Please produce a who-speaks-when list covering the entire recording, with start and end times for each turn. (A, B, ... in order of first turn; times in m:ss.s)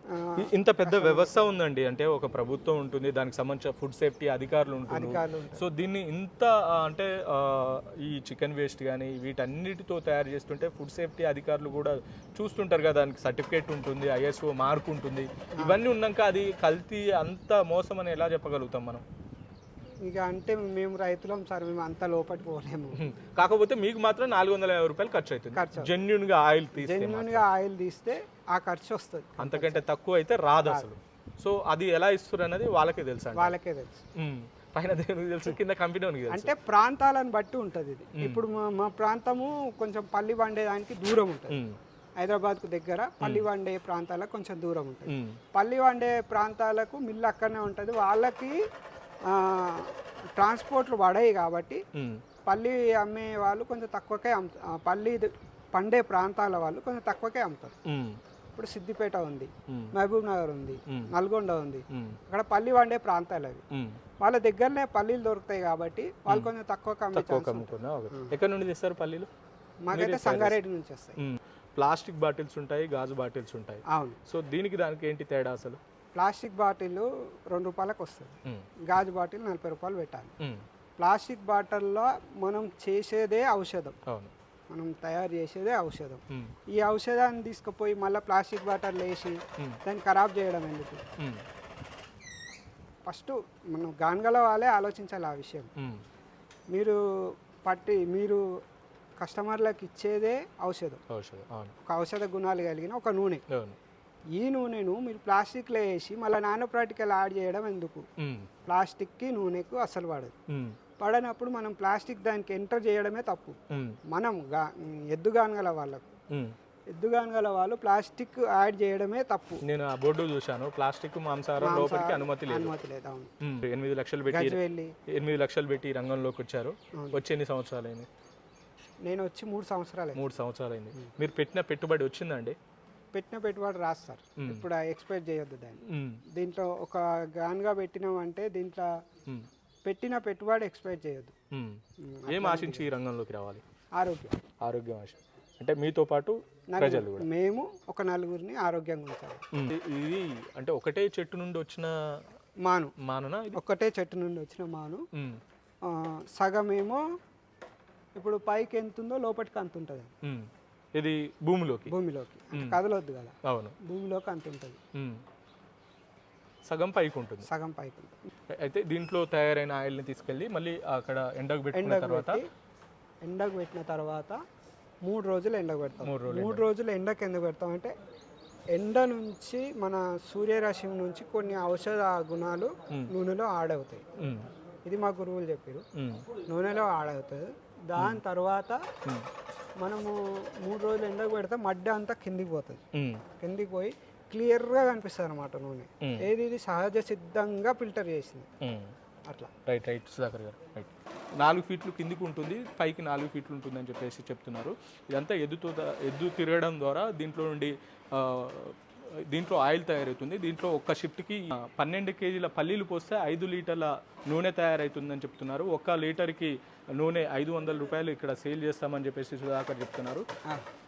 0:00.1-0:01.5 A
0:00.4-0:19.0 B
0:04.9-0:05.6 A
0:15.6-0:15.8 A
0:20.0-0:23.0 A
0:23.0-0:27.4 B
0:25.5-0:25.9 A
0:26.7-0:29.8 A
0:29.4-0:33.5 B
0:33.3-0:34.0 A
0:34.2-0:36.5 B
0:36.3-0:41.6 A
0:38.2-0:38.4 B
0:41.5-0:41.8 B
0:42.2-0:48.6 A
0:43.2-0:43.4 B
0:45.1-0:45.4 B
0:49.3-0:51.8 A
0:51.9-0:52.2 B
0:52.5-0:57.7 A
0:57.8-0:58.2 B
0:58.5-1:03.6 A
0:59.7-0:59.9 B
1:00.9-1:01.1 B
1:01.9-1:02.2 B
1:03.7-1:04.0 B
1:04.2-1:08.4 A
1:07.1-1:09.3 B
1:09.9-1:11.2 A
1:09.9-1:10.6 B
1:11.2-1:15.8 B
1:13.9-1:14.2 A
1:16.2-1:18.3 A
1:18.9-1:20.3 A
1:21.0-1:24.0 A
1:24.1-1:24.3 B
1:24.7-1:26.2 A
1:26.7-1:31.0 A
1:33.1-1:35.7 A
1:35.8-1:36.0 B
1:36.7-1:37.0 A
1:37.6-1:38.4 A
1:39.2-1:41.0 A
1:41.1-1:41.7 B
1:41.8-1:43.4 A
1:43.5-1:43.8 B
1:44.4-1:48.0 A
1:48.2-1:48.5 B
1:48.7-1:50.3 A
1:50.5-1:50.8 B
1:51.0-1:53.6 A
1:53.7-1:54.0 B
1:54.1-1:56.0 A
1:57.0-1:59.6 A
1:59.6-2:02.7 B
2:01.6-2:03.3 A
2:03.4-2:04.6 B
2:04.3-2:04.9 A
2:05.1-2:08.1 B
2:09.1-2:10.2 A
2:10.1-2:12.6 B
2:13.1-2:15.8 A
2:14.4-2:14.6 B
2:15.9-2:16.2 B
2:16.3-2:18.9 A
2:19.8-2:21.3 A
2:21.5-2:23.6 B
2:22.0-2:22.9 A
2:24.0-2:24.4 A
2:24.6-2:27.2 B
2:26.7-2:29.4 A
2:29.5-2:31.9 B
2:32.6-2:32.9 A
2:33.0-2:33.6 B
2:33.5-2:35.0 A
2:35.1-2:35.4 B
2:35.9-2:37.0 A
2:38.2-2:40.1 A
2:40.2-2:41.9 B
2:41.9-2:44.8 A
2:42.5-2:42.8 B
2:43.4-2:43.8 B
2:44.9-2:45.2 B
2:46.7-2:47.5 B
2:47.4-2:48.2 A
2:48.5-2:52.4 B
2:51.7-2:52.5 A
2:53.2-2:54.4 A
2:55.0-2:57.9 A
2:56.0-2:56.7 B
2:58.7-3:04.0 A
3:04.2-3:04.5 B
3:04.9-3:05.8 A
3:05.9-3:06.3 B
3:06.5-3:08.8 A
3:09.8-3:12.8 A
3:12.9-3:13.2 B
3:13.4-3:18.5 A
3:16.0-3:16.3 B
3:18.6-3:18.9 B
3:19.6-3:40.2 B